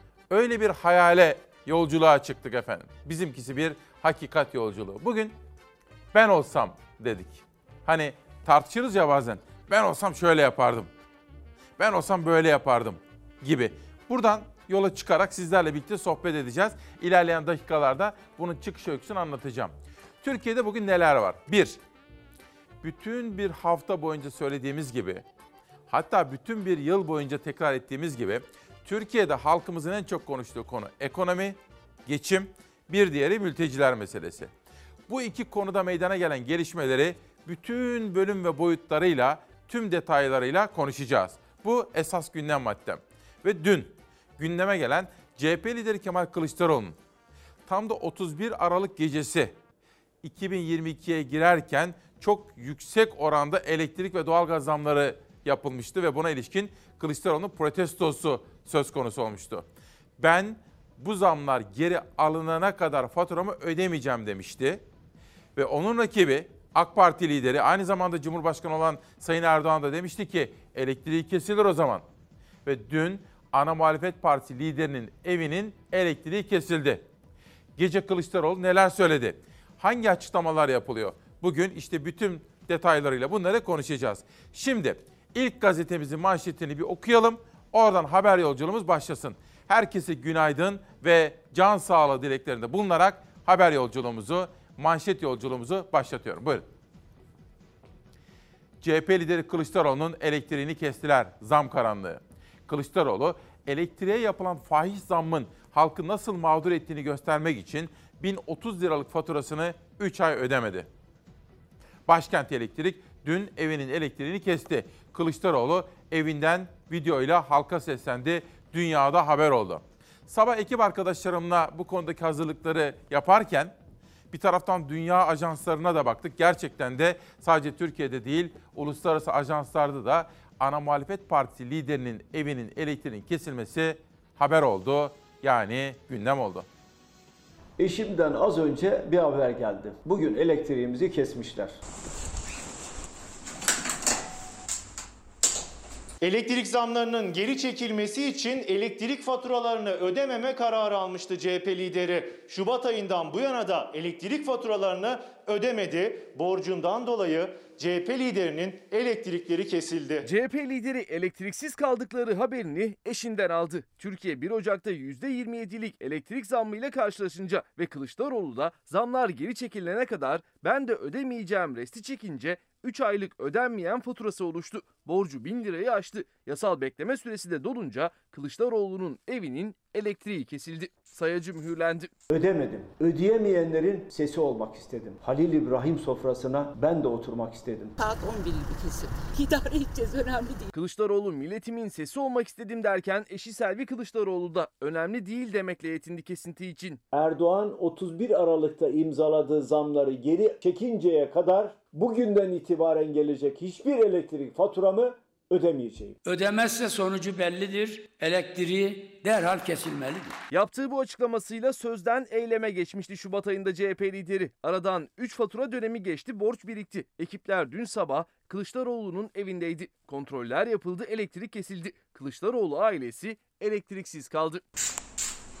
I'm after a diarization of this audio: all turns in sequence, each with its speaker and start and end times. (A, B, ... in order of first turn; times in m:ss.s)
0:00.3-0:05.4 A
0:06.1-0:10.9 A
0:11.8-0:21.8 A
0:22.8-0:25.2 A
0:25.9-0:34.5 A
0:35.1-0:47.0 A
0:47.7-0:49.5 A
0:50.2-0:59.6 A
1:00.2-1:04.8 A
1:05.6-1:12.0 A
1:12.6-1:17.0 A
1:17.8-1:36.7 A
1:38.8-1:50.9 A
1:52.1-2:03.7 A
2:04.3-2:16.7 A
2:17.8-2:21.8 B
2:26.2-2:40.3 C
2:40.2-3:02.1 D
3:02.3-3:07.9 B
3:08.0-3:10.7 E
3:10.7-3:17.0 D
3:17.1-3:26.2 B
3:26.2-3:30.4 F
3:30.5-3:44.6 D